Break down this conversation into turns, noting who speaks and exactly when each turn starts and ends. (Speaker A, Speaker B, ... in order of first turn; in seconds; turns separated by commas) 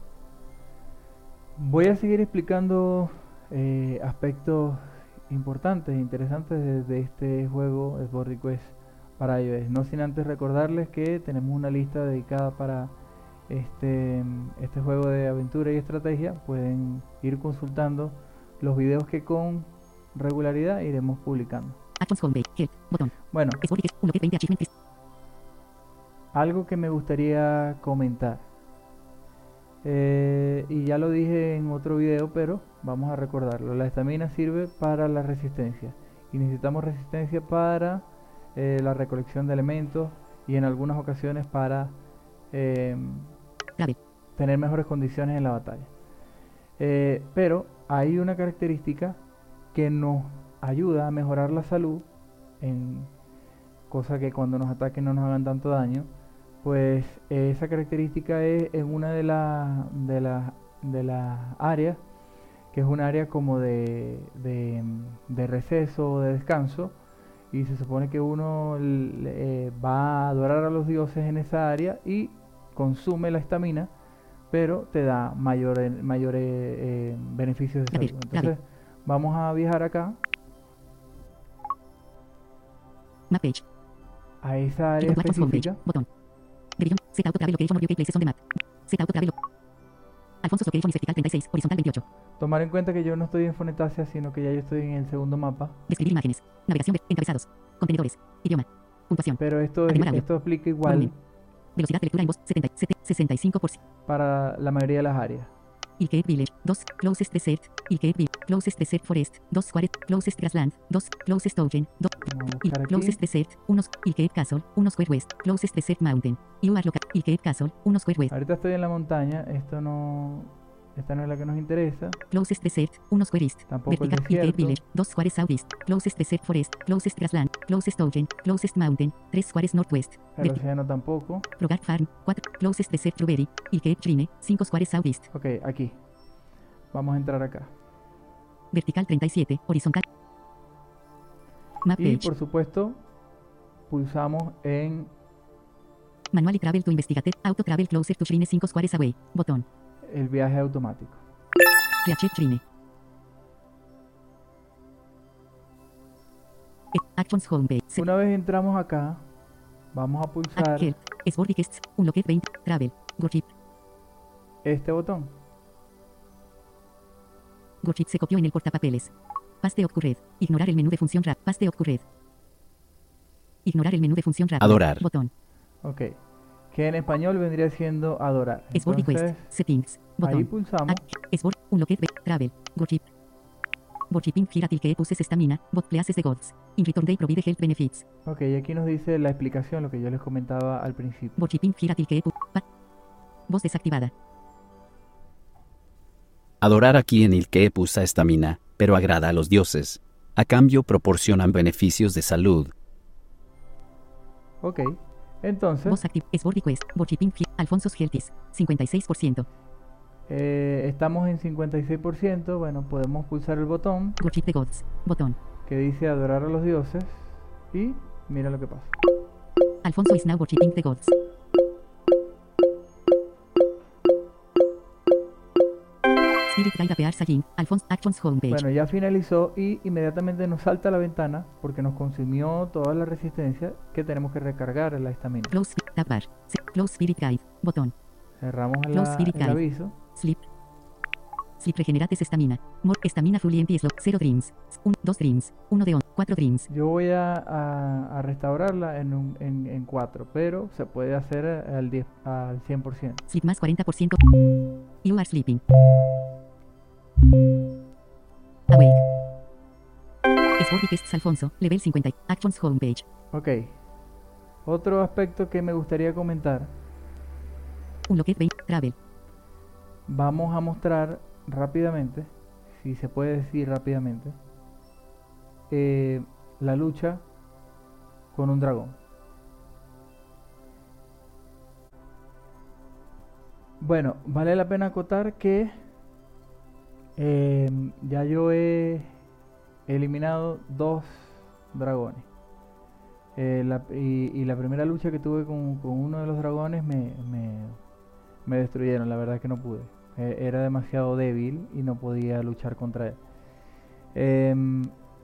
Speaker A: 1.6-13.0, Speaker A: 13.5-21.8, Speaker B: 22.0-24.7, Speaker A: 23.3-23.6, Speaker A: 26.3-28.5, Speaker A: 29.8-42.0, Speaker A: 42.5-43.3, Speaker A: 44.4-45.9, Speaker A: 46.8-49.2, Speaker A: 49.7-52.1, Speaker A: 52.6-53.1, Speaker A: 53.9-56.1, Speaker A: 56.6-62.0, Speaker A: 62.7-67.0, Speaker A: 67.5-73.9, Speaker A: 74.5-80.2, Speaker B: 77.9-78.5, Speaker B: 83.3-83.6, Speaker A: 84.4-85.8, Speaker B: 85.0-86.1, Speaker B: 86.8-89.3, Speaker B: 90.4-92.0, Speaker A: 92.4-95.8, Speaker B: 95.9-100.3, Speaker A: 99.4-101.2, Speaker B: 100.8-101.1, Speaker B: 101.8-103.8, Speaker A: 104.1-105.5, Speaker B: 106.0-118.3, Speaker A: 112.2-113.2, Speaker A: 118.3-122.2, Speaker B: 122.3-130.6, Speaker A: 123.7-124.8, Speaker A: 130.4-131.5, Speaker B: 131.6-135.2, Speaker A: 135.3-136.0, Speaker A: 136.9-137.7, Speaker B: 138.7-140.0, Speaker B: 141.8-142.3, Speaker A: 142.0-143.0, Speaker A: 143.9-145.1, Speaker B: 146.3-149.7, Speaker A: 150.0-151.2, Speaker B: 152.0-152.6, Speaker B: 156.9-158.1, Speaker A: 158.0-159.2, Speaker A: 159.9-160.9, Speaker B: 160.6-163.5, Speaker A: 164.6-165.3, Speaker B: 167.8-172.1, Speaker B: 173.6-175.3, Speaker C: 174.6-175.0, Speaker A: 175.8-176.2, Speaker A: 176.7-179.5, Speaker B: 178.7-183.1, Speaker A: 180.2-181.0, Speaker B: 184.1-188.1, Speaker A: 188.3-191.4, Speaker B: 191.4-192.7, Speaker B: 193.5-194.1, Speaker C: 196.6-202.7, Speaker A: 204.6-206.0, Speaker B: 205.8-209.4, Speaker A: 210.3-214.2, Speaker B: 214.2-215.4, Speaker A: 215.7-218.9, Speaker B: 219.8-221.1, Speaker B: 226.5-228.6, Speaker A: 228.5-235.6, Speaker B: 235.5-237.9, Speaker A: 238.4-240.0, Speaker B: 238.9-239.6, Speaker B: 240.2-240.4, Speaker B: 241.6-246.7, Speaker A: 246.7-253.2, Speaker B: 253.3-254.2, Speaker B: 255.0-255.6, Speaker B: 258.7-259.0, Speaker B: 260.6-263.1, Speaker A: 263.3-263.8, Speaker A: 264.6-266.8, Speaker B: 268.1-269.0, Speaker A: 270.1-274.4, Speaker A: 275.7-277.2, Speaker A: 278.3-279.0, Speaker A: 283.8-285.8, Speaker A: 287.2-289.1, Speaker A: 289.9-292.3, Speaker A: 293.4-297.8, Speaker A: 298.4-303.2, Speaker A: 304.1-304.9